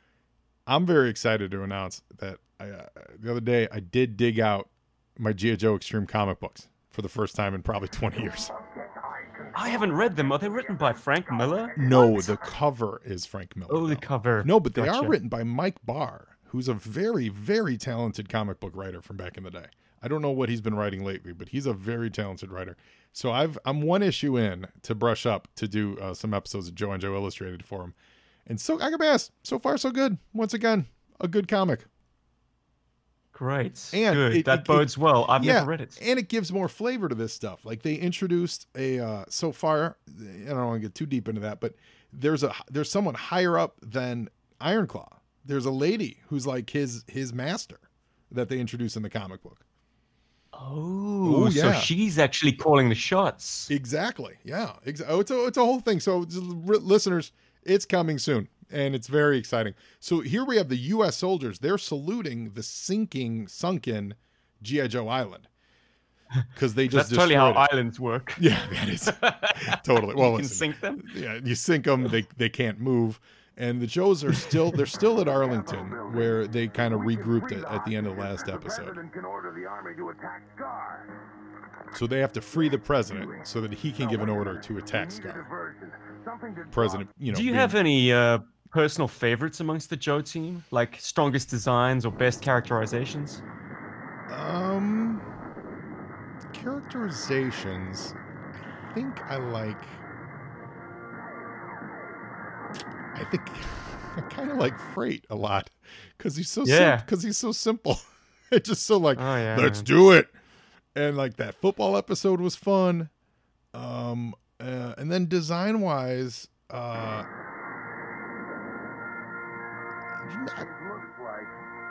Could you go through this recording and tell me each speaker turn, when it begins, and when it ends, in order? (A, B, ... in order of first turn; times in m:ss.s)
0:00.7-0:08.5 A
0:08.4-0:12.5 B
0:09.5-0:11.8 C
0:11.8-0:27.9 A
0:13.7-0:15.1 C
0:28.4-0:31.9 A
0:33.3-0:36.0 C
0:33.9-0:49.6 A
0:50.5-0:53.7 C
0:51.2-0:51.9 A
0:53.7-1:05.5 A
1:06.5-1:07.7 A
1:06.9-1:08.4 C
1:08.4-1:19.0 A
1:09.0-1:11.1 C
1:15.1-1:21.1 B
1:21.9-1:25.4 A
1:22.6-1:23.4 B
1:24.0-1:27.1 B
1:26.7-1:27.8 A
1:27.3-1:33.4 C
1:34.3-1:35.2 A
1:36.5-1:40.0 A
1:43.1-1:50.3 A
1:46.6-1:47.0 C
1:49.2-1:49.9 C
1:50.9-1:53.1 A
1:53.7-1:57.3 A
2:00.2-2:00.7 A
2:00.5-2:01.6 B